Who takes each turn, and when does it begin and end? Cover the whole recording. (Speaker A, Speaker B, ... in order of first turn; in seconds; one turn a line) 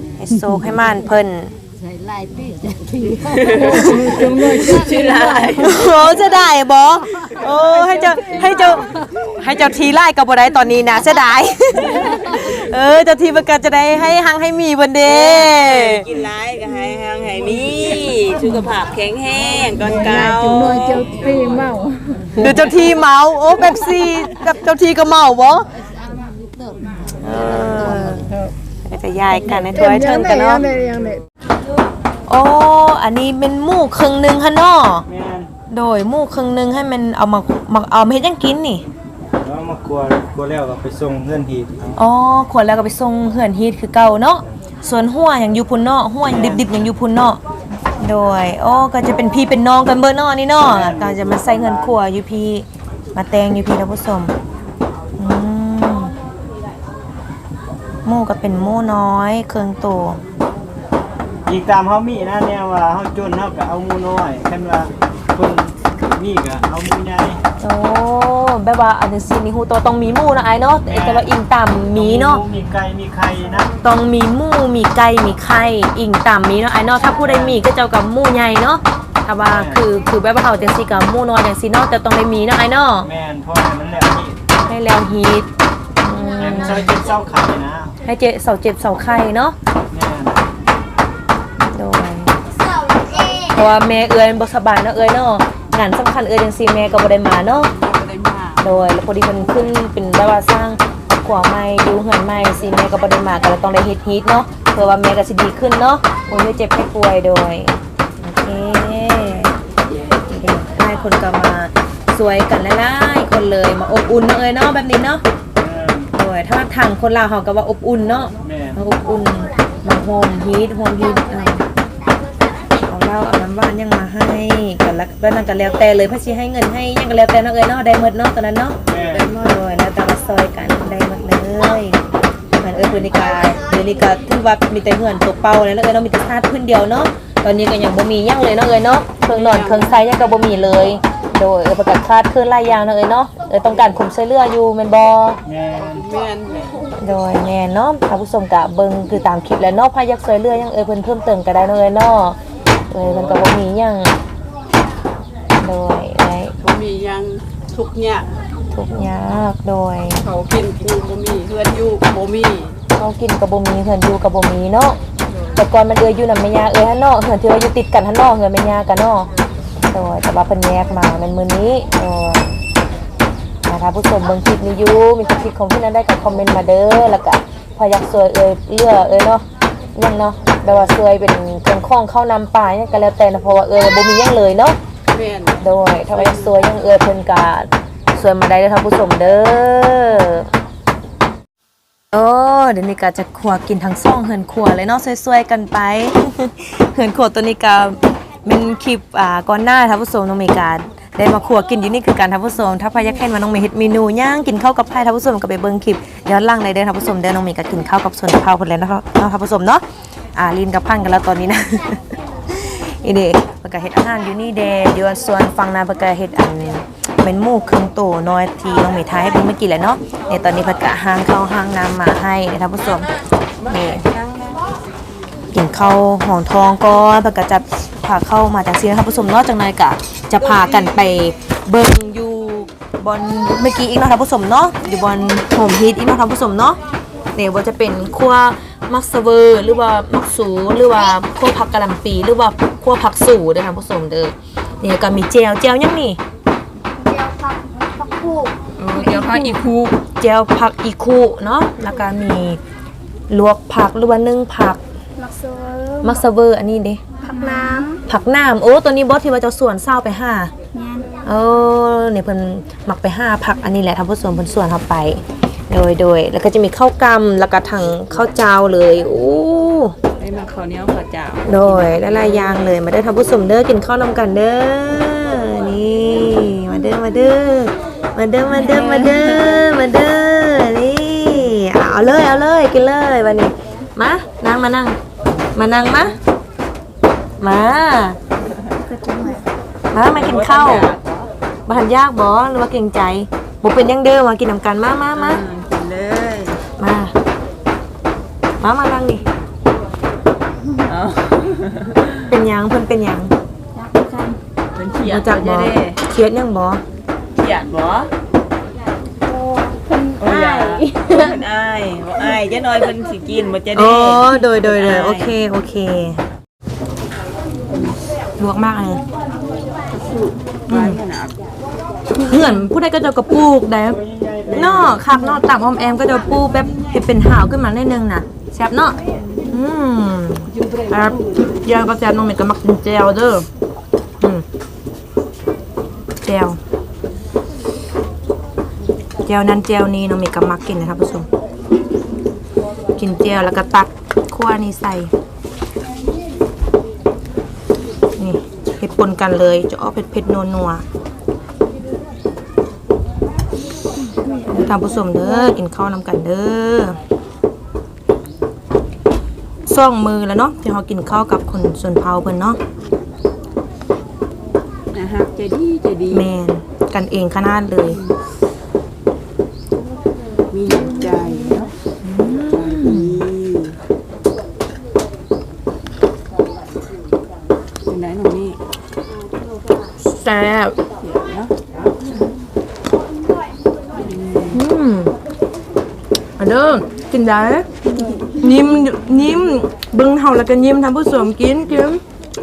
Speaker A: 0.2-1.6
Speaker B: 1.8-5.0
Speaker C: 3.2-5.9
Speaker D: 3.7-5.6
Speaker A: 3.7-4.1
Speaker A: 5.5-16.1
Speaker C: 7.4-8.8
Speaker C: 12.0-12.4
Speaker C: 15.0-21.8
Speaker D: 20.1-22.4
Speaker A: 22.4-25.7
Speaker B: 25.8-28.4
Speaker A: 27.2-30.7
Speaker D: 29.7-31.2
Speaker A: 32.3-35.1
Speaker E: 35.1-35.5
Speaker A: 35.7-38.9
Speaker E: 39.4-42.0
Speaker A: 42.0-47.4
Speaker E: 46.3-46.6
Speaker A: 48.0-54.3
Speaker E: 50.6-51.9
Speaker A: 55.2-56.1
Speaker A: 58.0-60.2
Speaker E: 61.5-67.4
Speaker A: 67.6-72.4
Speaker E: 70.9-71.3
Speaker E: 71.9-73.7
Speaker A: 73.8-83.1
Speaker E: 77.2-77.6
Speaker E: 79.5-79.8
Speaker E: 83.0-84.4
Speaker A: 84.6-85.5
Speaker A: 86.0-86.9
Speaker E: 86.4-88.0
Speaker A: 88.0-89.6
Speaker E: 89.9-90.4
Speaker A: 91.7-92.4
Speaker A: 93.2-97.7
Speaker C: 97.8-98.7
Speaker A: 98.6-109.5
Speaker A: 110.3-115.2
Speaker E: 115.6-116.1
Speaker A: 116.1-121.7
Speaker E: 118.5-118.8
Speaker A: 122.9-132.0
Speaker E: 128.9-129.3
Speaker A: 132.6-145.4
Speaker C: 139.3-140.0
Speaker E: 145.5-146.0
Speaker C: 145.8-146.8
Speaker A: 147.0-152.4
Speaker A: 152.9-154.2
Speaker A: 155.6-156.6
Speaker C: 156.6-158.3
Speaker A: 158.7-160.3
Speaker C: 160.2-162.8
Speaker A: 162.9-165.0
Speaker A: 165.5-169.3
Speaker A: 169.9-172.6
Speaker A: 173.7-184.8
Speaker C: 185.1-185.6
Speaker A: 185.6-190.5
Speaker C: 186.2-186.5
Speaker A: 192.1-209.8
Speaker A: 210.3-223.1
Speaker A: 223.7-224.1
Speaker C: 223.8-224.6
Speaker A: 225.5-236.8
Speaker A: 237.3-246.2
Speaker D: 247.1-248.5
Speaker B: 248.1-248.3
Speaker C: 248.8-249.9
Speaker A: 249.0-252.6
Speaker A: 253.3-254.8
Speaker D: 255.2-256.1
Speaker A: 256.0-257.0
Speaker D: 257.2-258.0
Speaker A: 258.1-260.5
Speaker D: 260.8-261.1
Speaker A: 261.2-269.9
Speaker C: 270.2-272.8
Speaker A: 271.4-285.0
Speaker C: 278.8-279.4
Speaker A: 285.5-286.2
Speaker A: 287.4-288.2
Speaker C: 288.5-289.3
Speaker A: 289.9-290.9
Speaker C: 290.1-291.2
Speaker A: 291.7-295.4
Speaker C: 295.1-296.6
Speaker A: 296.8-297.1
Speaker A: 298.6-299.2
Speaker C: 300.7-302.2
Speaker A: 302.3-303.3
Speaker D: 303.8-304.4
Speaker C: 304.8-306.0
Speaker A: 305.0-306.8
Speaker C: 307.4-308.1
Speaker D: 309.7-311.1
Speaker C: 310.2-315.4
Speaker A: 313.7-316.2
Speaker A: 318.4-319.0
Speaker C: 319.9-321.4
Speaker A: 320.7-321.0
Speaker A: 322.2-329.0
Speaker E: 324.1-324.5
Speaker C: 324.5-325.0
Speaker A: 329.5-333.5
Speaker A: 336.2-336.6
Speaker A: 339.3-341.3
Speaker A: 343.0-345.1
Speaker A: 348.2-350.8
Speaker A: 354.5-357.0
Speaker A: 359.7-362.6
Speaker C: 364.9-366.3
Speaker A: 366.1-368.0
Speaker C: 370.5-371.7
Speaker A: 372.0-373.2
Speaker C: 372.4-373.8
Speaker C: 377.9-378.6
Speaker A: 380.0-380.8
Speaker C: 381.0-381.5
Speaker C: 384.0-384.6
Speaker A: 384.5-385.1
Speaker A: 386.4-387.7
Speaker A: 388.4-392.0